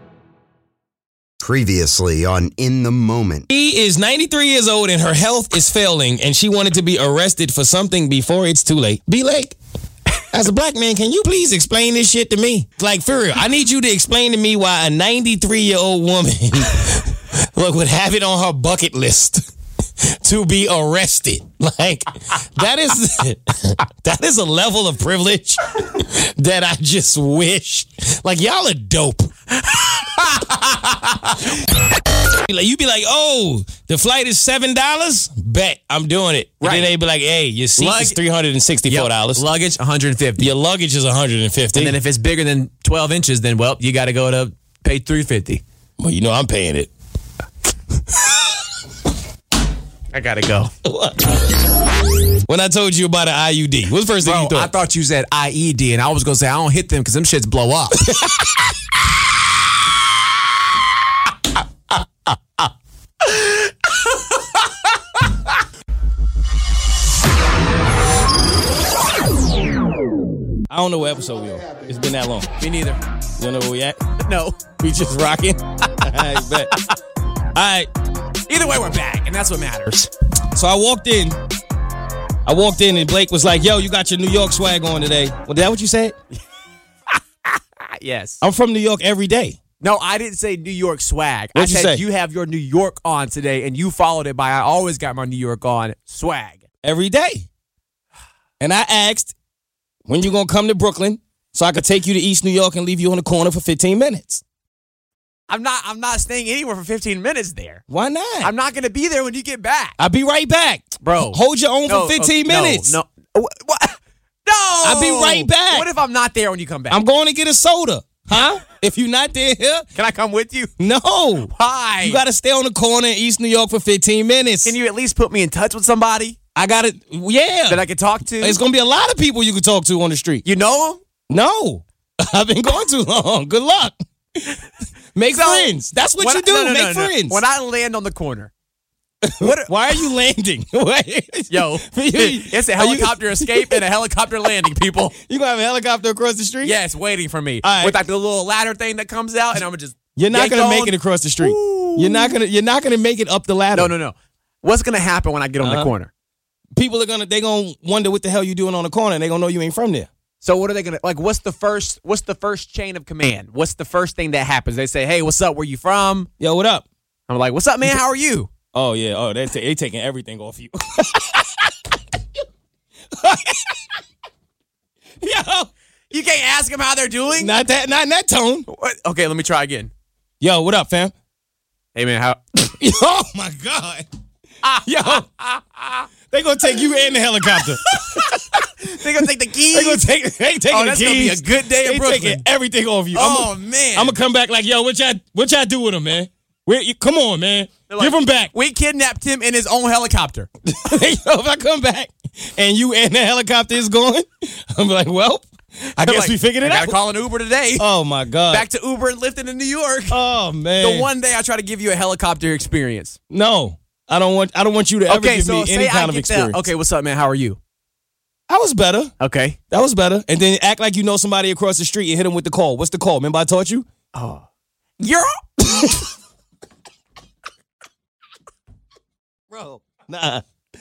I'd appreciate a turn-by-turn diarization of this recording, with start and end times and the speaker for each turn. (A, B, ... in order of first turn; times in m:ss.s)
0:01.4-0:03.4 A
0:03.5-0:09.6 B
0:10.3-0:19.5 B
0:20.0-0:29.3 B
0:29.6-0:31.6 C
0:32.3-0:39.4 B
0:36.6-0:36.9 C
0:37.8-0:38.2 C
0:38.9-0:40.5 C
0:40.4-0:42.0 B
0:41.8-0:45.6 C
0:46.0-0:46.9 B
0:50.1-0:50.7 C
0:50.8-0:51.3 B
0:52.5-0:54.7 B
0:54.2-0:58.1 C
0:58.0-0:58.7 B
1:10.7-1:12.5 B
1:12.6-1:13.0 C
1:13.4-1:14.0 B
1:14.2-1:14.6 C
1:14.8-1:16.7 B
1:15.8-1:17.0 C
1:17.6-1:17.9 B
1:18.5-1:20.1 C
1:20.5-1:21.4 B
1:22.5-1:26.2 B
1:27.1-1:28.4 C
1:28.4-1:29.6 B
1:29.8-1:36.6 C
1:31.6-1:32.0 B
1:36.8-1:37.5 B
1:38.6-1:39.3 B
1:40.1-1:44.4 B
1:45.5-1:47.8 C
1:47.9-1:48.5 B
1:48.4-1:50.0 C
1:50.0-1:53.0 B
1:51.0-1:57.0 C
1:54.8-1:55.9 B
1:56.9-1:59.9 B
2:00.0-2:00.7 C
2:00.8-2:01.5 B
2:01.5-2:02.2 C
2:02.0-2:04.7 B
2:04.7-2:06.4 C
2:06.6-2:07.8 B
2:07.7-2:08.6 C
2:08.4-2:10.4 B
2:10.4-2:11.0 C
2:11.3-2:14.6 B
2:15.2-2:17.4 B
2:15.3-2:18.5 C
2:19.2-2:23.8 B
2:19.4-2:19.7 C
2:21.5-2:25.2 C
2:25.1-2:26.7 B
2:26.6-2:32.4 C
2:27.6-2:28.0 B
2:30.2-2:33.9 B
2:33.7-2:36.1 C
2:35.6-2:35.9 B
2:36.8-2:40.1 B
2:40.4-2:46.3 C
2:46.4-2:46.8 B
2:47.3-2:48.5 C
2:48.7-2:51.9 B
2:53.1-2:53.9 B
2:55.2-2:55.7 B
2:56.1-2:57.5 C
2:57.4-2:58.7 B
2:58.7-2:59.9 C
3:00.4-3:01.1 B
3:02.0-3:02.7 C
3:02.8-3:04.1 B
3:04.6-3:06.0 C
3:04.8-3:05.3 B
3:06.3-3:08.4 B
3:07.5-3:10.0 C
3:09.7-3:18.5 B
3:10.7-3:12.4 C
3:13.1-3:14.2 C
3:17.9-3:20.5 C
3:20.7-3:27.0 B
3:26.0-3:27.9 C
3:27.8-3:28.6 B
3:28.5-3:30.2 C
3:30.1-3:31.1 B
3:30.8-3:33.2 C
3:33.3-3:36.7 B
3:35.1-3:37.6 C
3:38.5-3:39.1 B
3:39.2-3:39.6 C
3:39.7-3:43.9 B
3:44.1-3:44.4 C
3:45.0-3:45.9 C
3:45.6-3:46.1 B
3:49.5-3:50.4 B